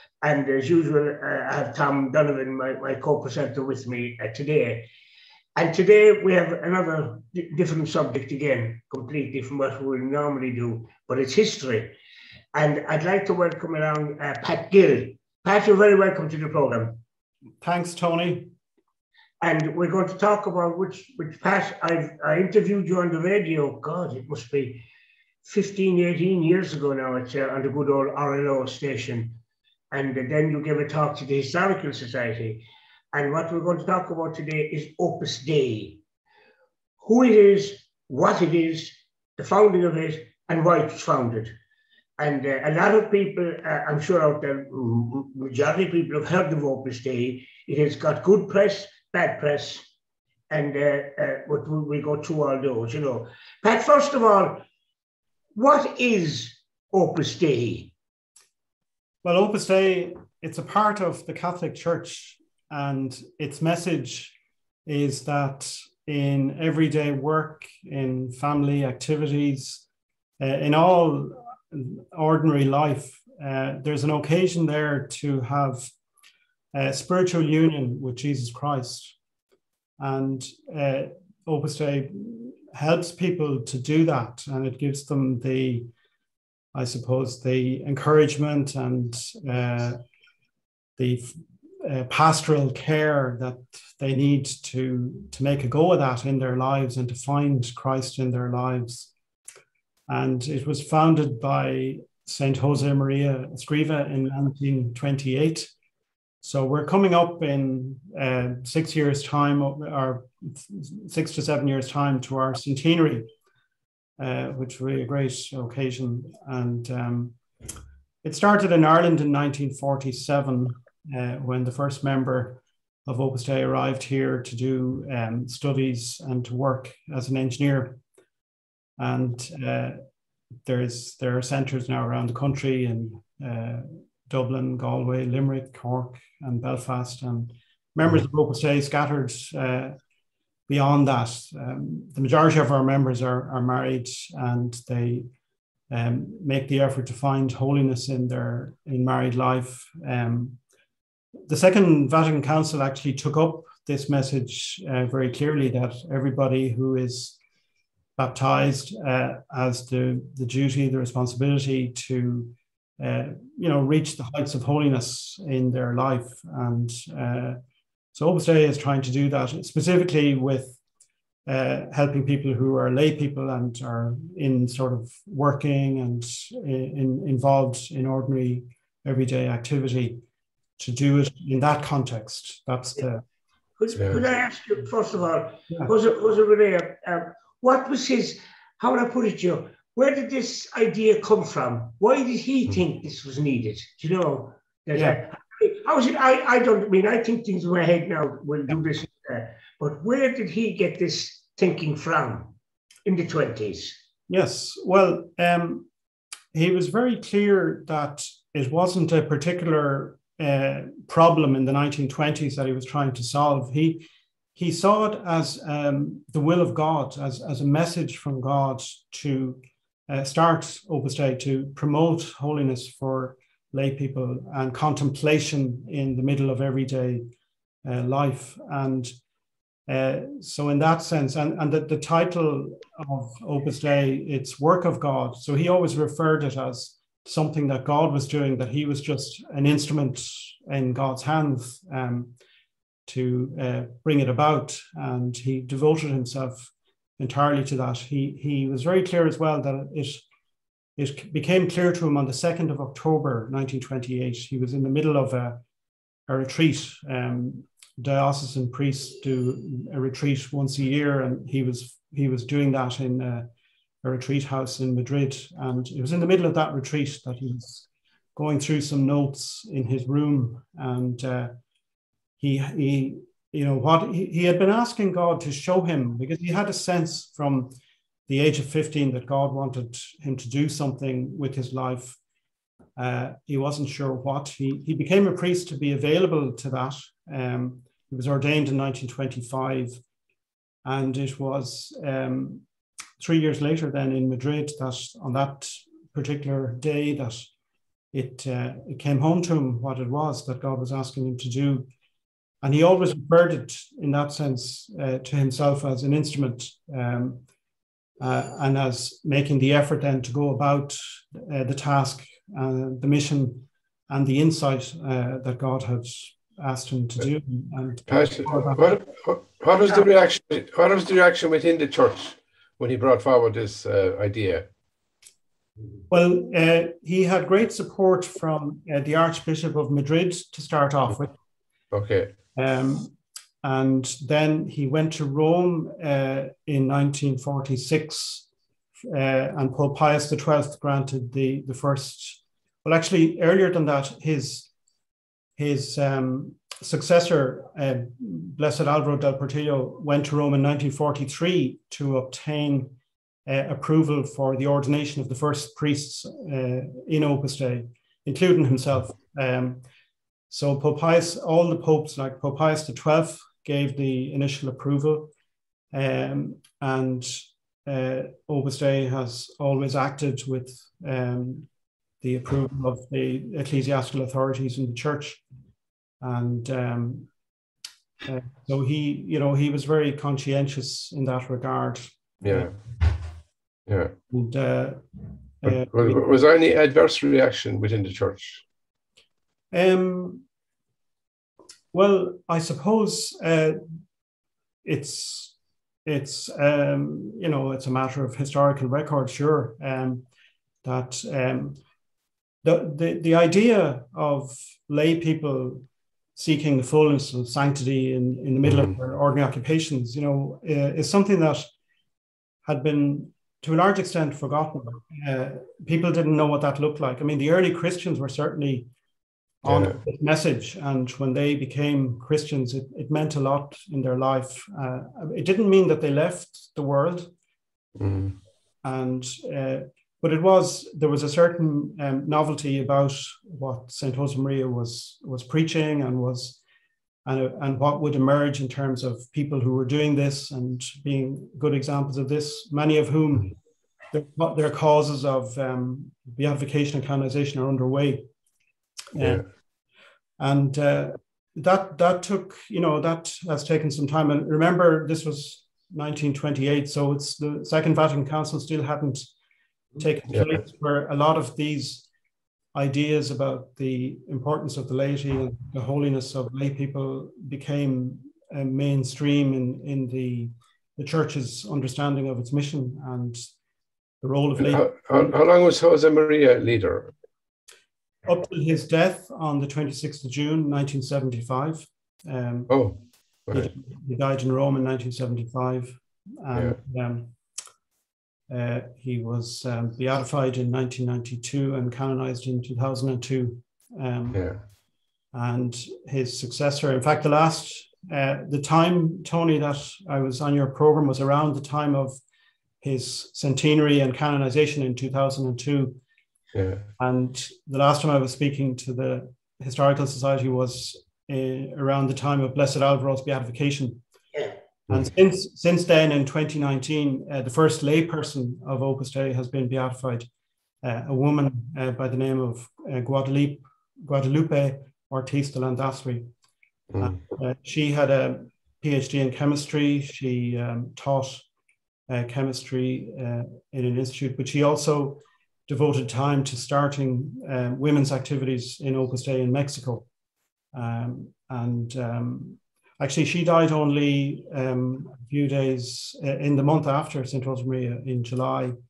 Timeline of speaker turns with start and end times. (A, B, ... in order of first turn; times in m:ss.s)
0:00.2-0:04.8 A
0:05.6-0:11.9 A
0:12.5-0:17.0 A
0:17.6-0:18.5 B
0:19.4-0:24.8 A
0:25.4-0:29.4 A
0:29.9-0:36.0 A
0:37.0-0:41.5 A
0:42.2-0:49.9 A
0:50.5-0:54.6 A
0:55.6-0:57.9 A
0:59.2-1:04.4 B
1:04.9-1:09.8 B
1:10.4-1:15.9 B
1:16.7-1:19.2 B
1:20.0-1:25.9 B
1:26.7-1:30.0 B
1:31.0-1:39.1 B
1:40.1-1:45.7 B
1:46.4-1:53.3 B
1:54.2-1:57.4 B
1:58.2-2:08.0 B
2:09.0-2:10.0 B
2:10.7-2:20.0 B
2:20.7-2:25.3 B
2:25.9-2:30.6 B
2:31.5-2:37.4 B
2:38.2-2:47.6 B
2:48.1-2:50.8 B
2:51.5-3:00.2 B
3:00.8-3:03.2 B
3:03.8-3:22.5 A
3:23.0-3:24.0 A
3:24.3-3:25.9 B
3:26.5-3:34.0 B
3:34.6-3:47.3 B
3:47.8-3:49.1 B
3:49.9-4:02.3 B
4:03.1-4:10.2 B
4:11.0-4:15.6 B
4:16.3-4:23.5 B
4:24.0-4:31.5 B
4:32.4-4:37.7 B
4:38.3-4:42.2 B
4:43.0-4:50.0 B
4:50.8-4:52.6 B
4:53.2-4:57.5 B
4:58.1-5:01.9 B
5:02.6-5:07.4 B
5:08.2-5:18.9 B
5:18.1-5:24.7 C
5:26.1-5:31.3 B
5:31.9-5:32.3 C
5:32.6-5:38.5 B
5:39.1-5:44.7 B
5:45.6-5:52.9 B
5:53.5-5:59.8 B
6:00.5-6:05.3 B
6:05.9-6:11.7 B
6:12.2-6:15.4 B
6:16.2-6:17.3 B
6:18.3-6:22.7 B
6:22.4-6:22.7 C
6:23.9-6:24.1 C
6:24.3-6:25.0 B
6:25.6-6:26.4 B
6:25.7-6:28.6 C
6:29.7-6:30.4 B
6:31.9-6:33.8 B
6:34.8-6:35.6 B
6:36.1-6:40.3 B
6:40.8-6:41.8 B
6:42.6-6:51.7 B
6:52.6-6:58.9 B
6:59.6-7:07.3 B
6:59.6-7:00.0 C
7:08.0-7:08.4 C
7:08.8-7:16.6 B
7:17.3-7:23.6 B
7:24.1-7:28.3 B
7:29.2-7:29.5 B
7:30.4-7:39.3 B
7:40.0-7:42.1 B
7:40.3-7:40.6 C
7:42.8-7:53.5 B
7:54.2-7:55.3 B
7:54.6-7:57.1 C
7:58.2-8:02.8 B
8:02.7-8:03.7 C
8:03.5-8:07.3 B
8:08.5-8:14.4 B
8:14.3-8:14.6 C
8:15.3-8:22.2 B
8:22.8-8:26.0 B
8:26.5-8:26.8 C
8:27.0-8:34.0 B
8:34.9-8:40.3 B
8:40.8-8:46.3 B
8:47.0-8:51.5 B
8:52.1-9:00.1 B
9:00.7-9:08.8 B